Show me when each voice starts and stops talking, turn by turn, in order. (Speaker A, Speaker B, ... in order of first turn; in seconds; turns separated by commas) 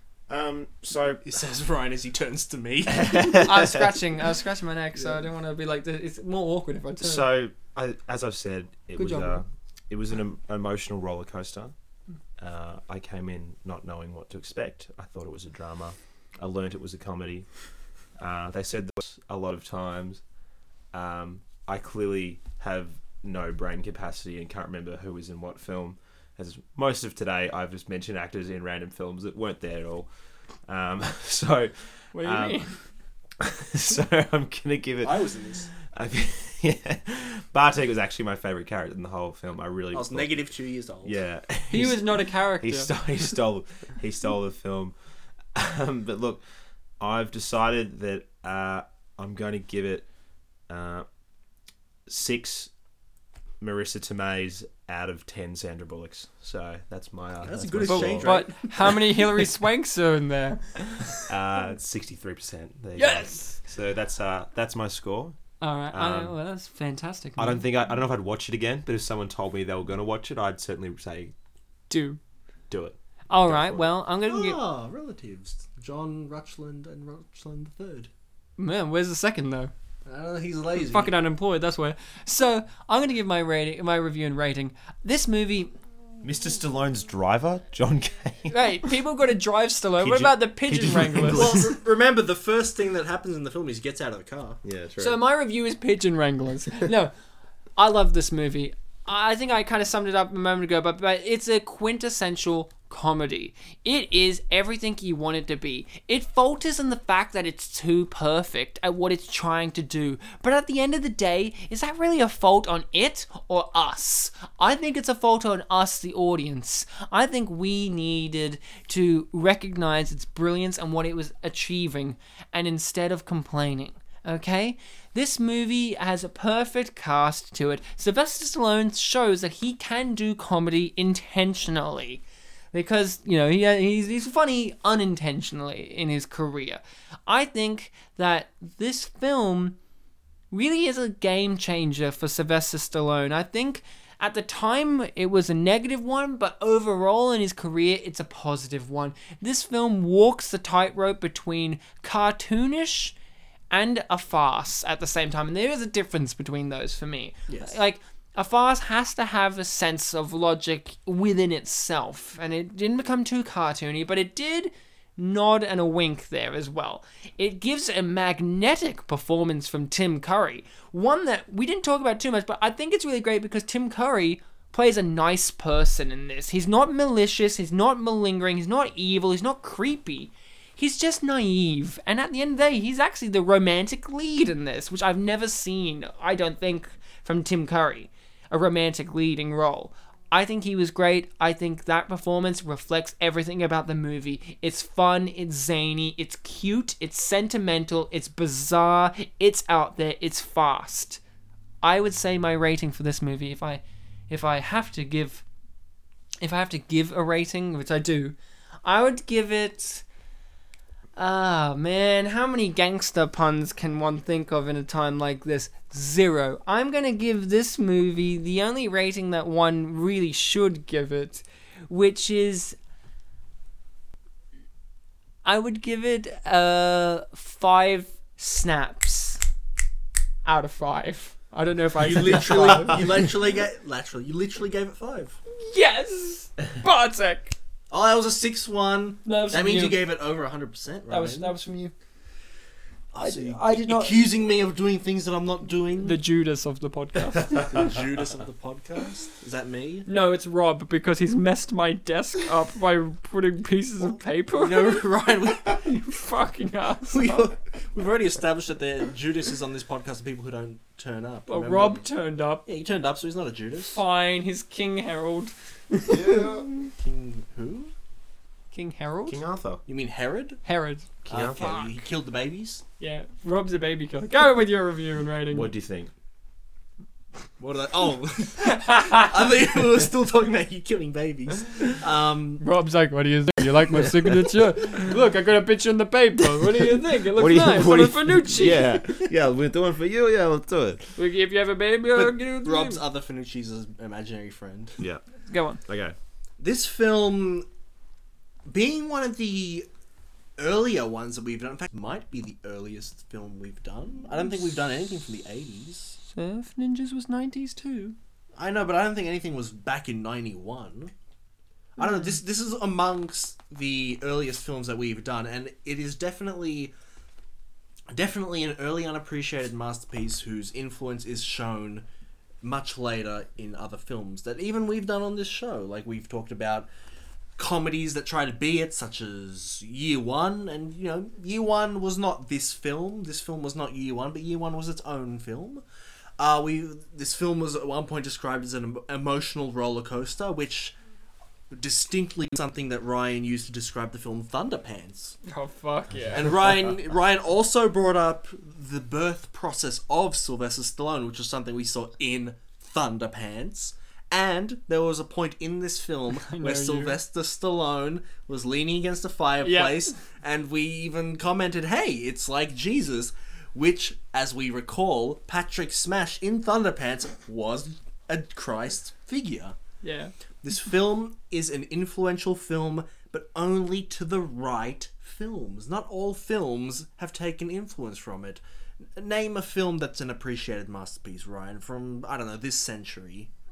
Speaker A: 0.3-1.3, Speaker B: 1.2-3.7, Speaker A: 3.0-3.8, Speaker C: 3.1-7.2, Speaker A: 7.0-11.7, Speaker C: 8.9-9.4, Speaker A: 12.4-17.4, Speaker A: 18.2-20.2, Speaker A: 20.9-30.1, Speaker A: 30.7-32.7, Speaker C: 32.1-32.7, Speaker A: 33.4-35.2, Speaker B: 35.0-35.7, Speaker A: 35.8-40.4, Speaker B: 39.9-41.2, Speaker A: 41.0-44.9, Speaker C: 41.7-42.9, Speaker A: 45.5-46.4, Speaker A: 47.0-50.1, Speaker A: 50.7-51.0, Speaker A: 52.1-52.7, Speaker A: 53.6-58.4, Speaker B: 57.4-59.0, Speaker C: 57.8-61.2, Speaker A: 61.3-65.4, Speaker C: 63.0-63.6, Speaker C: 65.6-67.6, Speaker A: 65.9-66.3, Speaker A: 67.4-71.3, Speaker C: 71.9-72.2, Speaker A: 72.7-73.9, Speaker C: 73.3-74.6, Speaker B: 74.3-78.1, Speaker C: 78.6-79.7, Speaker B: 80.0-81.1, Speaker C: 80.8-85.7, Speaker A: 86.2-88.5, Speaker C: 88.5-91.6, Speaker A: 90.0-91.8, Speaker B: 91.3-94.6, Speaker A: 94.6-95.2, Speaker C: 95.0-97.1, Speaker C: 97.8-132.2, Speaker C: 132.7-139.8, Speaker C: 140.5-153.1, Speaker C: 153.7-201.2, Speaker B: 157.5-157.8, Speaker C: 201.8-205.4, Speaker C: 206.4-210.0, Speaker C: 211.2-222.8, Speaker C: 225.4-229.4, Speaker C: 230.4-233.2, Speaker B: 232.0-235.4, Speaker C: 235.6-237.5, Speaker B: 237.9-241.5, Speaker C: 239.2-240.0, Speaker C: 241.1-241.9, Speaker B: 243.1-246.2, Speaker C: 243.1-244.2, Speaker C: 246.0-247.9, Speaker B: 247.7-250.1, Speaker C: 250.1-255.0, Speaker B: 254.5-255.9, Speaker C: 255.7-257.5, Speaker B: 257.1-262.1, Speaker C: 261.5-262.6, Speaker B: 262.6-264.0, Speaker C: 263.9-266.9, Speaker A: 266.1-266.7, Speaker B: 266.9-267.9, Speaker C: 268.7-269.4, Speaker A: 269.3-269.8, Speaker B: 269.9-270.6, Speaker C: 270.6-271.1, Speaker A: 271.2-271.9, Speaker B: 271.3-272.8, Speaker C: 273.0-275.7, Speaker A: 275.5-276.1, Speaker B: 277.6-282.6, Speaker C: 278.6-279.3, Speaker C: 282.6-289.0, Speaker A: 287.3-291.1, Speaker C: 291.2-293.0, Speaker B: 292.1-295.0, Speaker C: 295.5-295.8, Speaker A: 295.8-296.1, Speaker B: 296.6-297.7, Speaker B: 298.7-299.9, Speaker B: 300.6-306.2, Speaker C: 306.2-308.1, Speaker B: 308.5-311.1, Speaker B: 312.0-316.9, Speaker B: 318.1-322.1, Speaker B: 322.6-326.9, Speaker B: 327.6-335.8, Speaker B: 336.4-340.9, Speaker B: 341.7-345.4, Speaker C: 345.4-346.4, Speaker B: 346.3-369.7, Speaker C: 356.3-357.2, Speaker C: 359.6-360.1, Speaker C: 370.0-370.3, Speaker B: 370.6-378.6, Speaker B: 379.1-383.5